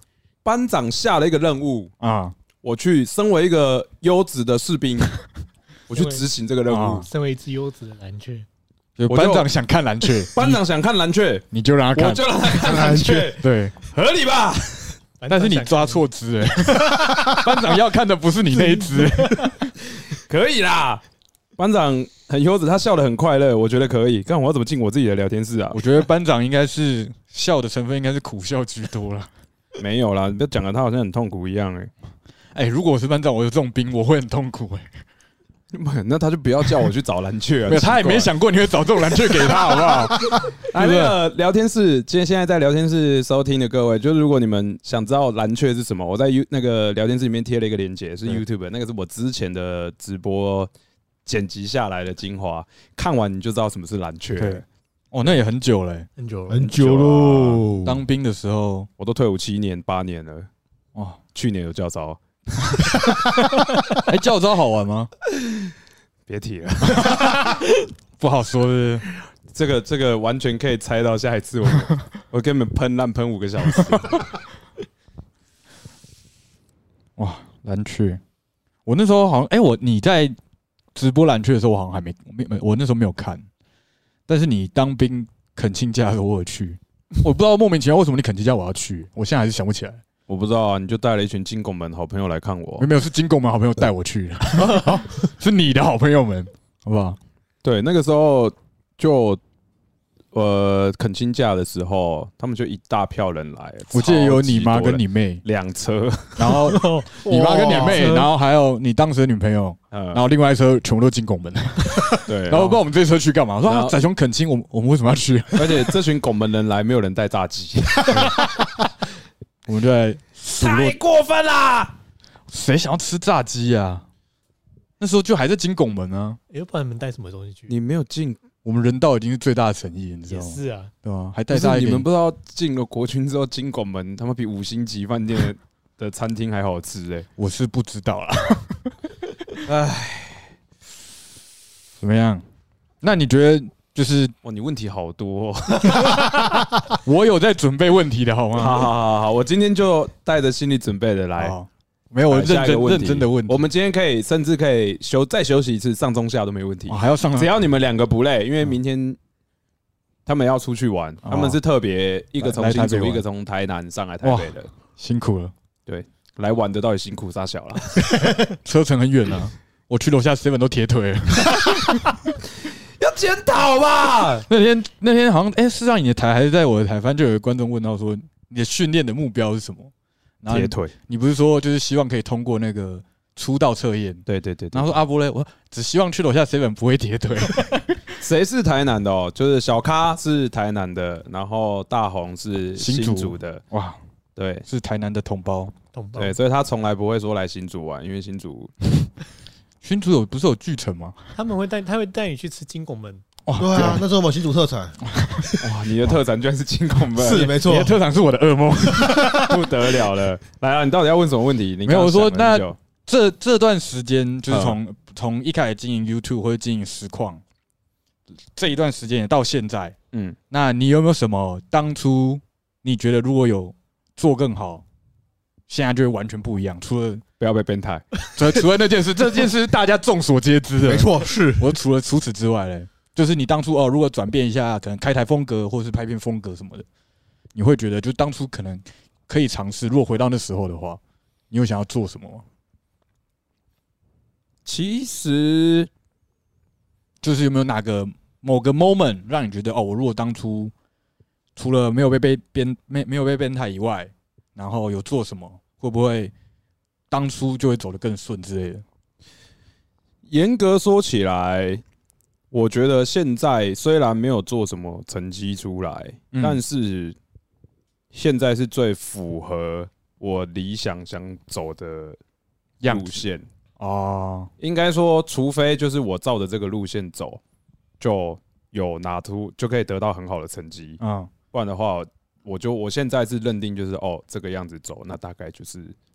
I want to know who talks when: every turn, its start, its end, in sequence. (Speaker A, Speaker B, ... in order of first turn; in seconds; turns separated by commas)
Speaker A: 0.4-1.9, Speaker B: 2.0-2.3, Speaker A: 2.6-5.1, Speaker A: 5.9-7.0, Speaker C: 5.9-6.2, Speaker B: 6.7-7.1, Speaker C: 7.0-8.4, Speaker B: 9.0-10.6, Speaker A: 9.1-9.5, Speaker A: 10.3-15.0, Speaker B: 11.5-12.2, Speaker D: 12.6-13.3, Speaker B: 12.8-13.7, Speaker C: 15.2-16.0, Speaker B: 15.3-19.7, Speaker C: 16.6-17.4, Speaker C: 18.6-19.6, Speaker A: 20.2-21.0, Speaker A: 21.6-25.8, Speaker B: 25.7-29.3, Speaker A: 29.8-31.9, Speaker B: 32.5-34.9, Speaker A: 35.7-38.3, Speaker B: 37.7-41.2, Speaker A: 40.6-50.7, Speaker A: 51.2-54.6, Speaker B: 54.4-56.1, Speaker C: 56.2-56.7, Speaker D: 56.5-58.0, Speaker A: 56.7-57.7, Speaker B: 57.7-58.9, Speaker A: 59.0-60.5, Speaker B: 60.9-61.2, Speaker A: 61.3-63.0, Speaker B: 63.9-65.1, Speaker A: 66.3-67.3, Speaker B: 66.9-67.3, Speaker B: 68.2-69.0, Speaker A: 69.5-74.3, Speaker B: 77.2-78.2, Speaker B: 78.9-80.4, Speaker B: 80.9-83.5, Speaker B: 84.3-90.0, Speaker A: 90.3-92.9, Speaker B: 92.8-97.2, Speaker A: 97.6-99.4, Speaker A: 100.3-106.6, Speaker B: 103.9-105.4, Speaker B: 106.4-116.0, Speaker C: 106.5-108.3, Speaker D: 107.2-108.2, Speaker A: 109.9-110.2, Speaker A: 112.2-112.8, Speaker A: 113.6-114.0, Speaker A: 115.5-118.4, Speaker B: 118.1-118.4, Speaker B: 119.7-121.0, Speaker A: 120.5-121.9, Speaker B: 122.5-124.0, Speaker B: 125.0-126.4, Speaker C: 126.5-127.7, Speaker A: 127.7-128.4, Speaker B: 128.6-132.1, Speaker C: 130.3-130.9, Speaker A: 131.5-137.3, Speaker B: 137.4-138.9, Speaker A: 139.6-140.5, Speaker B: 142.0-142.4, Speaker B: 143.0-144.3, Speaker A: 144.4-146.5, Speaker B: 146.9-148.9, Speaker A: 148.6-151.6, Speaker B: 151.4-153.6, Speaker A: 152.3-159.2, Speaker B: 156.9-157.5, Speaker A: 160.2-164.7, Speaker B: 161.2-161.6, Speaker B: 162.4-163.2, Speaker B: 164.2-165.5, Speaker A: 165.9-168.1, Speaker B: 168.6-172.2, Speaker A: 173.0-174.5, Speaker B: 174.5-188.1, Speaker A: 180.5-180.9, Speaker A: 184.2-184.9, Speaker A: 188.2-193.6, Speaker B: 192.8-194.0, Speaker A: 194.4-194.7, Speaker B: 194.7-195.7, Speaker C: 195.9-196.4, Speaker A: 196.1-198.7, Speaker B: 199.8-201.2, Speaker C: 201.3-203.2, Speaker B: 203.4-204.1, Speaker D: 203.6-205.6, Speaker B: 205.1-205.5, Speaker A: 205.6-207.6, Speaker D: 207.2-208.0, Speaker B: 207.5-209.6, Speaker D: 208.9-209.6, Speaker A: 209.3-212.8, Speaker B: 211.8-217.4, Speaker A: 214.5-214.8, Speaker B: 218.6-219.9, Speaker A: 220.1-220.4, Speaker B: 220.5-224.8, Speaker B: 225.7-227.2, Speaker A: 227.4-228.0, Speaker B: 228.3-236.9, Speaker D: 230.8-231.7, Speaker B: 237.5-242.4, Speaker A: 244.6-245.9, Speaker B: 247.2-250.7, Speaker B: 251.6-256.3, Speaker B: 257.1-258.8, Speaker A: 260.3-261.8, Speaker A: 262.5-267.1, Speaker B: 266.3-266.6, Speaker A: 268.1-272.2, Speaker B: 272.8-273.2, Speaker A: 272.9-273.5, Speaker B: 273.8-274.5, Speaker A: 274.6-277.4, Speaker A: 278.0-281.0, Speaker B: 281.0-281.3, Speaker A: 281.5-285.9